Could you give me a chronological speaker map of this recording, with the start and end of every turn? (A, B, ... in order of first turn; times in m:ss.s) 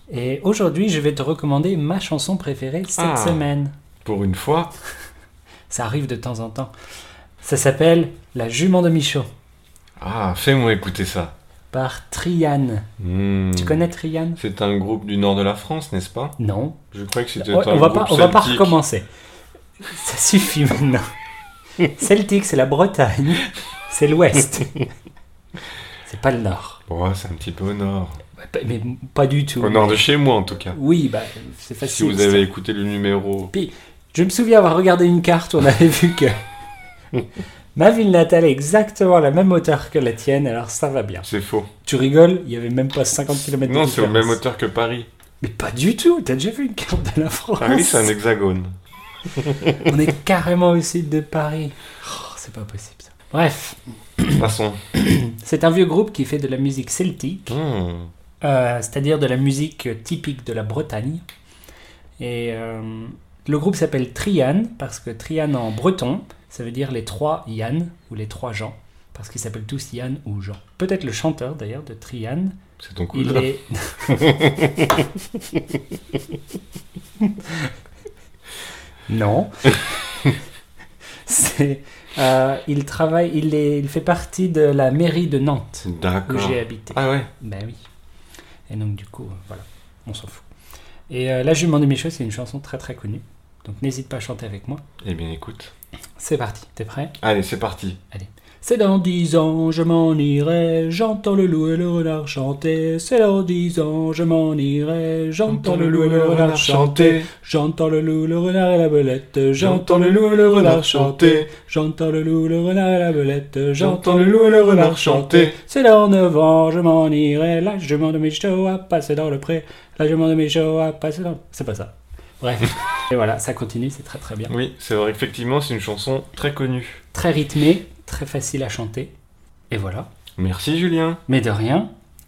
0:00.1-0:03.7 A
0:03.0-0:03.4 B
0:04.0-0:04.7 B
0:05.7-0:06.7 A
0:07.4-0:09.3 A
0:10.0-0:11.3 B
0:11.7-0:12.8 A
0:13.0-0:13.8 B
0:13.5-0:14.4 A
0:14.4-0:16.3 B
0:16.4-0:16.8 A
0:16.9-0:18.8 B
0:17.4-0:19.0 A
0:19.8-0:21.1 A
0:21.8-0:24.8 A
0:26.0-0:26.8 A
0:26.9-0:28.2 B
0:28.4-0:30.0 A
0:29.6-0:30.8 B
0:30.7-0:32.5 A
0:31.8-0:33.5 B
0:33.5-0:36.4 A
0:37.8-0:41.3 A
0:41.2-0:41.7 B
0:41.8-0:44.4 A
0:43.3-0:45.1 B
0:45.4-0:48.1 A
0:47.6-0:48.7 B
0:49.3-0:49.8 B
0:49.8-0:57.6 A
0:54.4-0:54.8 B
0:57.5-0:58.1 B
0:58.4-1:01.2 A
1:02.2-1:12.6 A
1:12.8-1:13.5 B
1:13.1-1:14.5 A
1:14.1-1:15.0 B
1:17.2-1:17.7 A
1:19.1-1:20.3 A
1:21.2-1:27.8 A
1:25.8-1:27.3 B
1:28.7-1:30.4 A
1:31.1-1:34.8 A
1:35.0-1:35.7 B
1:36.2-1:37.1 A
1:37.2-1:38.0 B
1:38.1-2:04.5 A
1:45.4-1:47.3 B
1:49.6-1:51.5 B
1:53.8-1:55.6 B
2:04.5-2:07.0 B
2:07.1-2:09.1 A
2:09.7-2:10.1 A
2:10.4-2:11.2 B
2:11.3-2:11.9 A